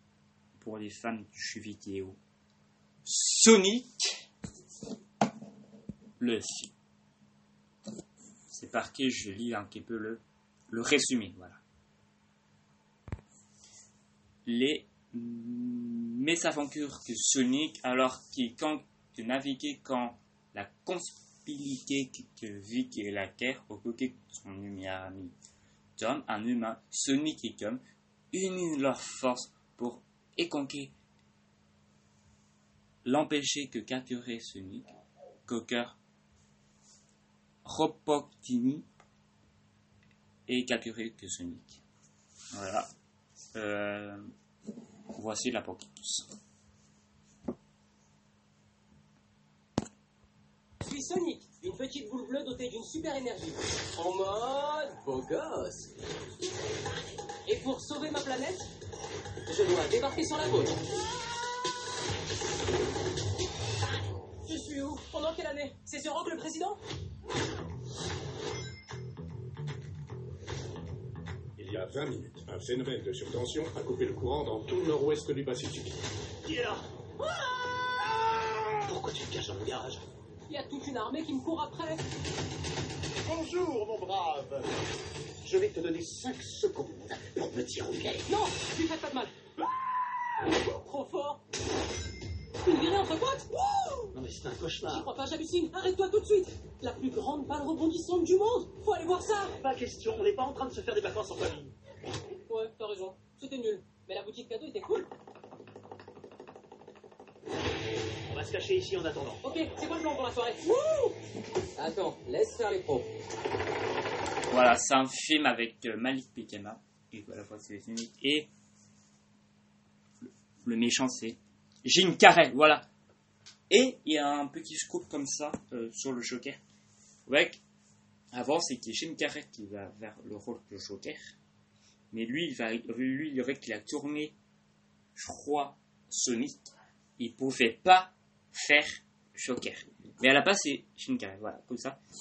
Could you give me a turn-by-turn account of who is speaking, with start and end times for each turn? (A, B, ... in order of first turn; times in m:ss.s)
0:00.5-0:02.2 A
0:03.0-0:04.2 A
0:06.2-0:06.7 A
0:08.5-0:11.6 A
0:14.4-0:25.3 A
0:26.0-0:27.8 A
0:28.3-0:30.9 A
0:33.0-0:34.9 A
0:35.5-0:36.0 A
0:37.6-0:38.9 A
0:40.5-0:41.8 A
0:42.5-0:42.9 A
0:43.5-0:44.3 A
0:45.1-0:46.3 A
0:50.8-0:55.9 B
0:57.4-0:58.7 B
0:59.5-1:00.8 B
1:04.4-1:06.8 B
1:11.6-1:16.0 C
1:16.5-1:16.8 D
1:18.8-1:20.0 D
1:20.5-1:22.0 B
1:25.4-1:28.2 D
1:28.3-1:29.3 B
1:30.7-1:31.4 B
1:32.6-1:34.2 B
1:34.1-1:35.0 D
1:34.9-1:39.6 B
1:39.6-1:41.7 D
1:42.5-1:45.1 B
1:48.3-1:49.4 D
1:49.4-1:51.2 B
1:51.8-1:53.1 B
1:54.5-1:58.5 A
2:00.6-2:02.9 A
2:03.7-2:06.6 A
2:07.3-2:07.6 A
2:08.3-2:11.3 A
2:12.1-2:14.4 A
2:15.1-2:22.0 A